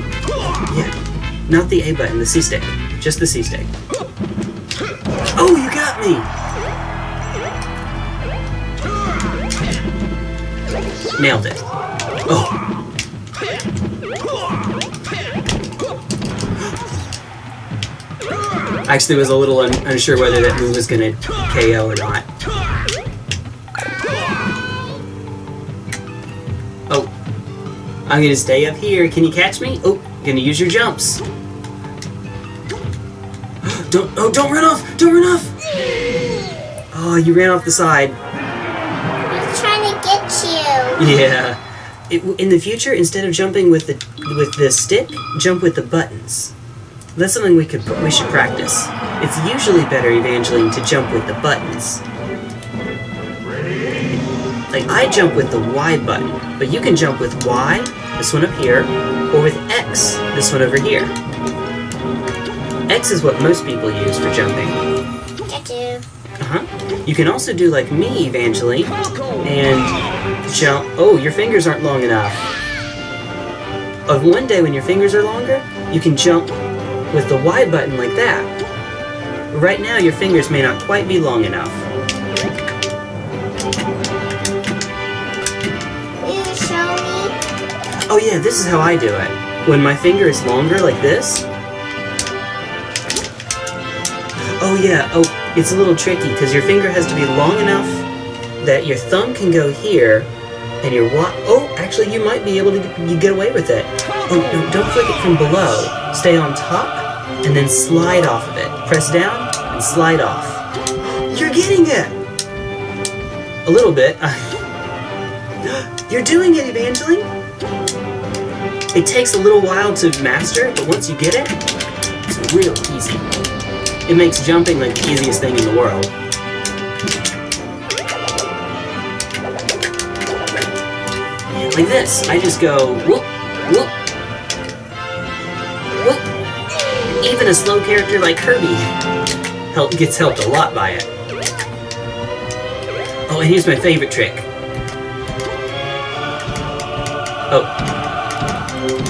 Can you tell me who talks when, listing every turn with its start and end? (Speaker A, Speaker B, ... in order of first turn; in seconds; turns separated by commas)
Speaker A: 0.7-0.9, Speaker A: 1.5-3.7, Speaker A: 5.4-6.3, Speaker A: 11.2-11.6, Speaker A: 12.3-12.6, Speaker A: 18.9-22.3, Speaker A: 28.1-31.2, Speaker A: 33.6-35.5, Speaker A: 36.9-38.2, Speaker B: 39.3-41.1, Speaker A: 41.0-46.5, Speaker A: 47.1-52.0, Speaker A: 54.7-61.1, Speaker A: 62.9-64.8, Speaker B: 65.5-66.1, Speaker A: 66.4-72.4, Speaker A: 74.1-76.5, Speaker A: 77.1-78.5, Speaker A: 79.5-81.8, Speaker B: 86.2-87.3, Speaker A: 88.1-91.5, Speaker A: 94.6-98.1, Speaker A: 98.6-100.3, Speaker A: 100.8-112.2, Speaker A: 113.7-114.6, Speaker A: 115.6-117.3, Speaker A: 118.9-121.6, Speaker A: 122.3-123.2, Speaker A: 124.1-126.1, Speaker A: 131.6-133.9, Speaker A: 136.0-136.2, Speaker A: 137.2-138.9, Speaker A: 139.7-141.1, Speaker A: 143.3-144.5